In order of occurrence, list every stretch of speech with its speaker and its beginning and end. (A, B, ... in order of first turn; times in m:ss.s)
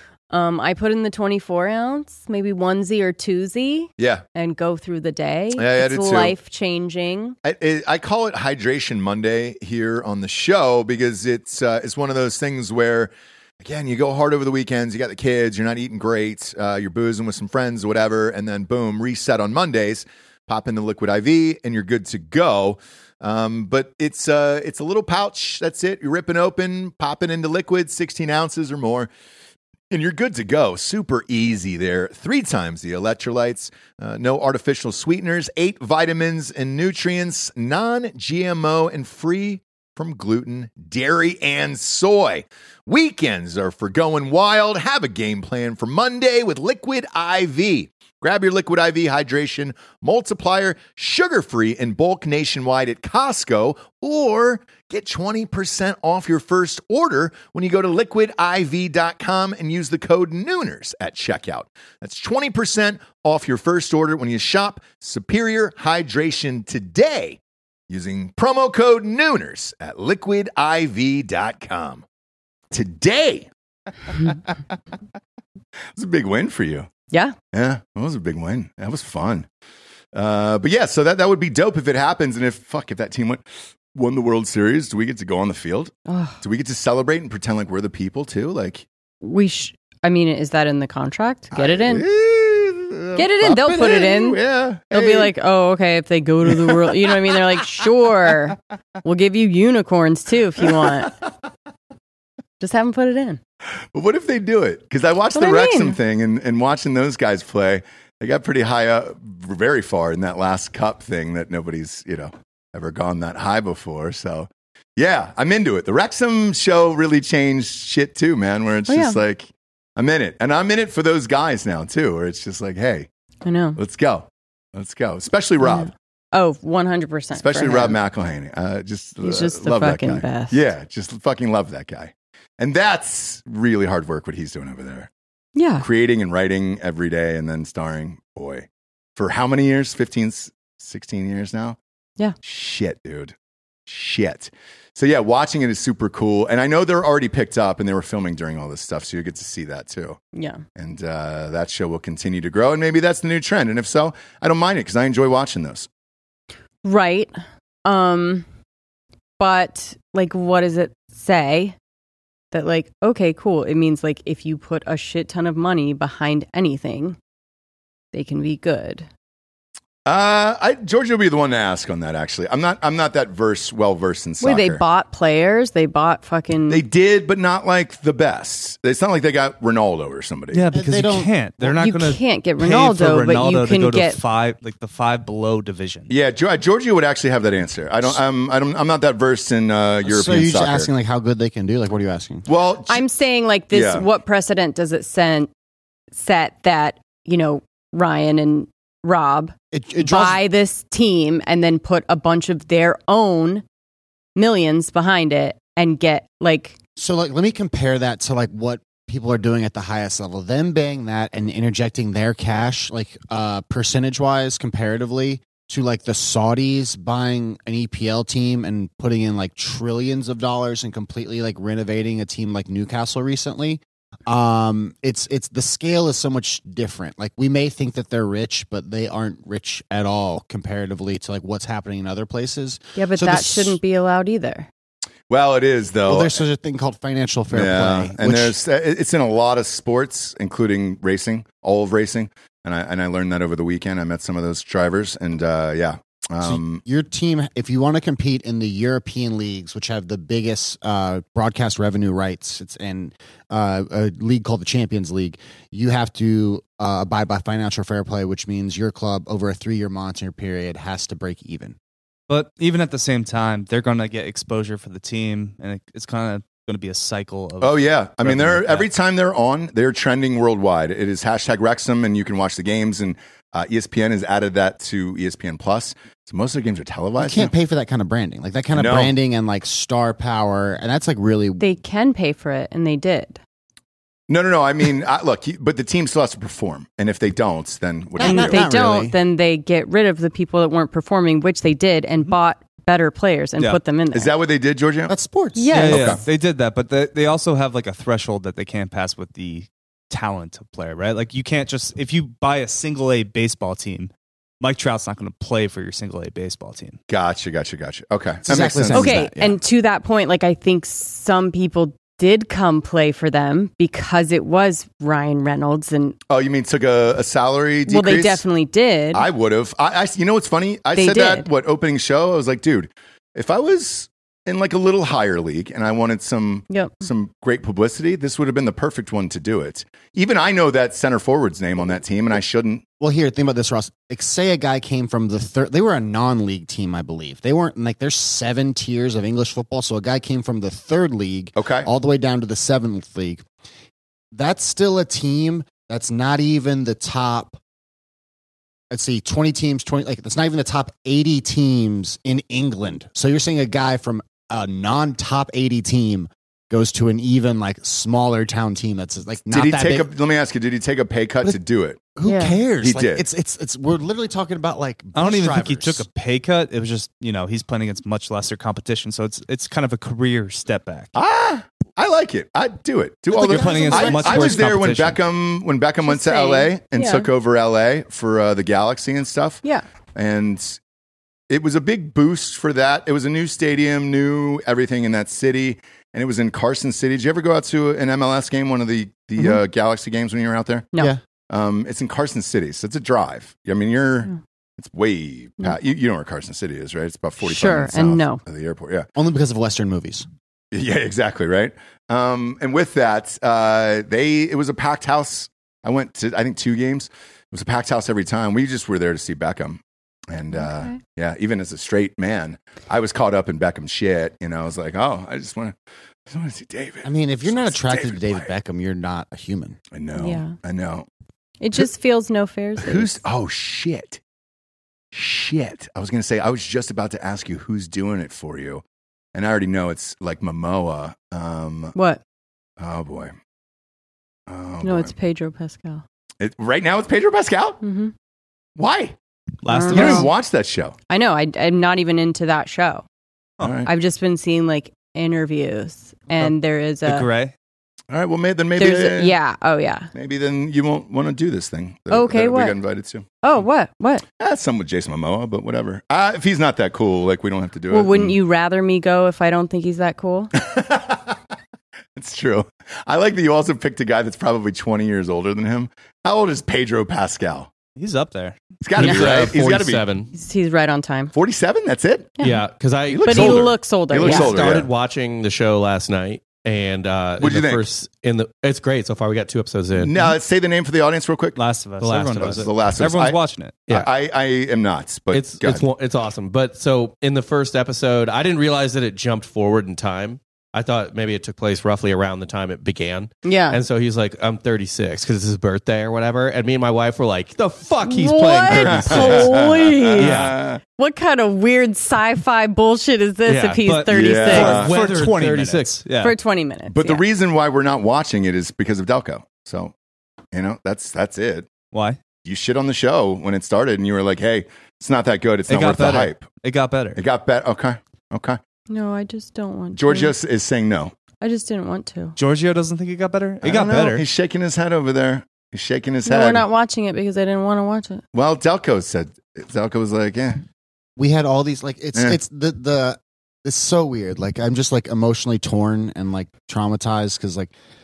0:00.3-0:07.4 A
0:04.0-0:04.2 B
0:05.5-0:06.4 B
0:07.4-0:29.1 B
0:29.9-1:12.0 B
1:12.7-1:13.5 B
1:14.0-1:14.7 B
1:15.9-1:16.9 B
1:17.1-1:17.4 A
1:17.5-1:19.5 B
1:20.1-1:28.9 B
1:26.1-1:26.4 A
1:29.2-1:32.0 A
1:31.5-1:35.3 B
1:33.2-1:34.4 A
1:34.9-1:41.1 A
1:36.4-1:37.4 B
1:40.6-1:41.1 B
1:42.6-1:43.4 A
1:43.8-2:03.1 B
1:45.3-1:46.0 A
1:58.9-1:59.2 A
2:03.4-2:03.8 A
2:03.8-2:05.9 B
2:05.6-2:08.0 A
2:07.3-2:15.1 B
2:09.2-2:10.7 A
2:15.5-2:15.9 A
2:15.8-2:21.8 B
2:22.4-2:23.3 B
2:23.9-2:30.2 B
2:30.3-2:30.6 A
2:30.8-2:35.9 B
2:36.8-2:37.3 A
2:37.8-2:38.4 A
2:39.4-2:41.8 A
2:42.5-2:47.2 A
2:48.1-2:49.1 A
2:50.0-2:54.8 B
2:54.4-2:56.8 A
2:56.7-3:00.6 B
3:00.5-3:06.1 C
3:00.7-3:01.3 D
3:01.7-3:04.2 A
3:06.1-3:10.9 B
3:10.0-3:12.4 D
3:12.5-3:13.0 B
3:12.9-3:15.5 A
3:13.7-3:14.1 B
3:16.1-3:23.6 A
3:19.7-3:20.4 D
3:24.4-3:26.8 A
3:27.0-3:53.8 D
3:53.0-3:54.7 A
3:55.3-3:56.4 B
3:56.0-3:58.5 D
3:57.5-4:06.8 B
4:06.4-4:21.8 D
4:22.3-4:28.9 C
4:27.6-4:37.5 B
4:37.2-4:41.6 D
4:38.7-4:39.1 B
4:41.6-4:43.4 A
4:44.3-4:48.6 B
4:48.2-4:49.2 D
4:48.2-4:54.3 A
4:54.1-4:55.1 B
4:55.1-4:56.2 D
4:55.5-4:56.2 A
4:55.7-5:07.0 C
4:55.9-4:56.2 B
5:07.1-5:09.3 B
5:08.4-5:09.5 D
5:08.9-5:16.2 A
5:16.3-5:18.4 B
5:17.9-5:19.2 A
5:19.1-5:32.8 B
5:20.9-5:21.5 A
5:26.7-5:27.0 A
5:33.0-5:43.4 D
5:41.6-5:41.9 B
5:44.3-5:47.6 D
5:48.9-6:00.1 D
5:59.5-6:02.0 B
6:02.1-6:06.0 D
6:02.2-6:02.6 A
6:02.8-6:03.2 B
6:05.1-6:11.1 C
6:11.1-6:19.6 B
6:13.3-6:14.7 D
6:13.4-6:15.2 C
6:16.0-6:17.3 A
6:20.1-6:20.8 B
6:21.5-6:30.9 B
6:31.5-6:39.1 B
6:37.4-6:38.4 A
6:39.1-6:40.3 D
6:40.7-6:55.8 B
6:50.5-6:51.0 A
6:56.3-6:58.5 B
6:57.0-6:59.8 D
6:59.9-7:01.1 B
7:00.2-7:00.6 A
7:01.6-7:03.2 A
7:02.8-7:04.2 B
7:05.1-7:08.8 B
7:09.3-7:11.9 B
7:11.9-7:12.2 A
7:12.8-7:13.3 B
7:14.5-7:15.1 B
7:14.8-7:16.0 A
7:16.4-7:17.8 B
7:17.8-7:18.1 A
7:18.8-7:19.2 B
7:19.6-7:20.3 C
7:19.7-7:20.3 A
7:19.9-7:21.0 B
7:21.1-7:23.0 A
7:23.6-7:23.9 B
7:23.8-7:27.3 A
7:27.0-7:27.5 C
7:28.1-7:29.3 B
7:28.8-7:30.1 A
7:30.1-7:33.2 B
7:32.1-7:32.8 A
7:33.4-7:34.2 A
7:34.4-7:38.4 B
7:37.9-7:40.5 A
7:40.5-7:41.4 B
7:42.2-7:47.7 B
7:48.0-7:48.6 C
7:48.8-7:50.0 B
7:49.0-7:50.3 E
7:49.0-7:49.3 A
7:50.3-7:51.3 A
7:51.3-7:52.4 B
7:52.4-7:52.6 A
7:52.4-8:00.2 E
7:53.1-7:54.9 B
7:53.2-7:54.6 A
7:57.4-7:57.8 B
8:00.0-8:01.6 B
8:01.5-8:03.9 C
8:02.0-8:02.7 E
8:02.4-8:05.8 B
8:05.3-8:19.5 E
8:13.4-8:13.8 A
8:18.0-8:24.8 A
8:18.7-8:20.8 B
8:20.2-8:20.6 E
8:23.4-8:23.8 E
8:23.8-8:26.4 C
8:24.1-8:25.0 B
8:24.5-8:26.0 E
8:26.2-8:27.2 A
8:26.9-8:29.9 B
8:30.5-8:31.7 B
8:31.9-8:32.2 C
8:32.4-8:36.4 B
8:35.7-8:37.2 C
8:37.1-8:38.6 B
8:38.9-8:40.3 A
8:39.9-8:41.1 B
8:41.4-8:42.4 A
8:42.4-8:44.2 C
8:43.6-8:46.6 B
8:46.2-8:48.2 A
8:48.3-8:50.6 B
8:51.2-8:57.7 D
8:52.1-8:52.4 B